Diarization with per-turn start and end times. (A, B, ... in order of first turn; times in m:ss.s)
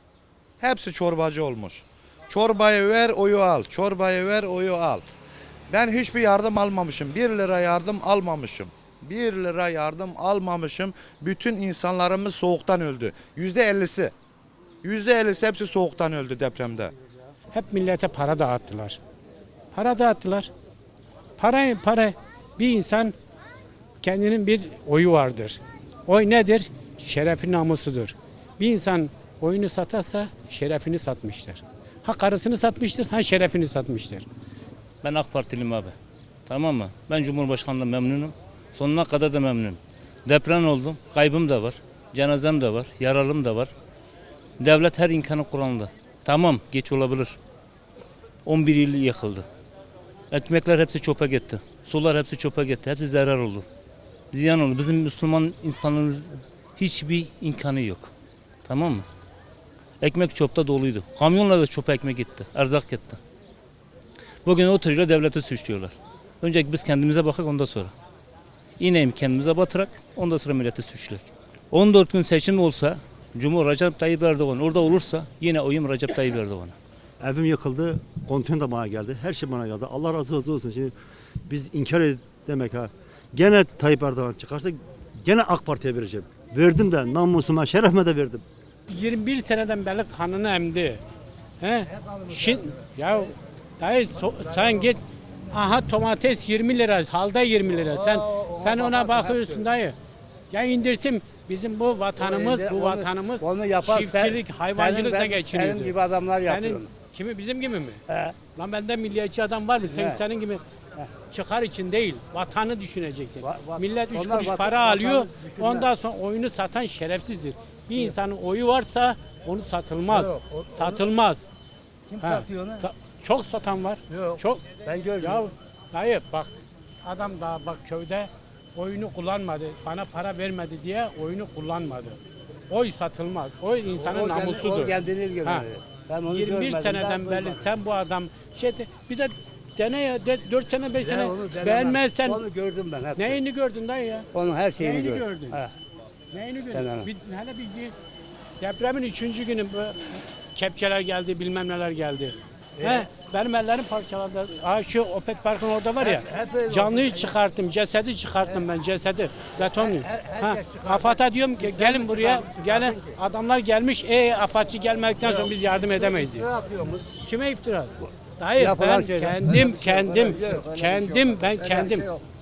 0:00.6-0:05.0 A
0:05.7-0:14.1 A
0:14.8-0:16.9 A
0:17.5-0:19.0 B
0:19.7-0:20.5 B
0:21.4-0:23.1 B
0:24.0-0:34.3 B
0:35.0-0:36.0 C
0:36.5-0:43.7 C
0:44.6-0:47.4 C
0:48.5-0:49.5 C
0:50.3-0:53.7 C
0:54.3-0:58.1 C
0:58.6-0:59.1 C
1:00.0-1:03.2 C
1:04.4-1:07.9 C
1:08.8-1:16.8 C
1:17.2-1:20.9 D
1:21.5-1:28.4 D
1:28.9-1:31.0 B
1:31.6-1:40.0 B
1:38.0-1:39.6 E
1:40.5-1:48.0 B
1:42.2-1:46.9 E
1:48.1-1:48.4 E
1:48.5-1:50.6 B
1:49.9-1:50.2 E
1:51.3-2:01.4 B
1:53.4-1:55.9 E
2:00.2-2:01.0 E
2:02.1-2:02.8 E
2:02.2-2:04.6 B
2:04.1-2:05.4 E
2:05.2-2:06.5 B
2:07.0-2:15.7 B
2:14.0-2:17.6 E
2:16.3-2:22.4 B
2:21.0-2:23.4 E
2:23.2-2:25.6 B
2:24.3-2:25.7 E
2:26.3-2:27.9 B
2:26.7-2:27.1 E
2:28.6-2:46.5 B
2:32.8-2:33.1 E
2:36.0-2:37.3 E
2:39.8-2:43.2 E
2:45.3-2:47.1 E
2:47.2-2:52.1 B
2:48.6-2:52.2 E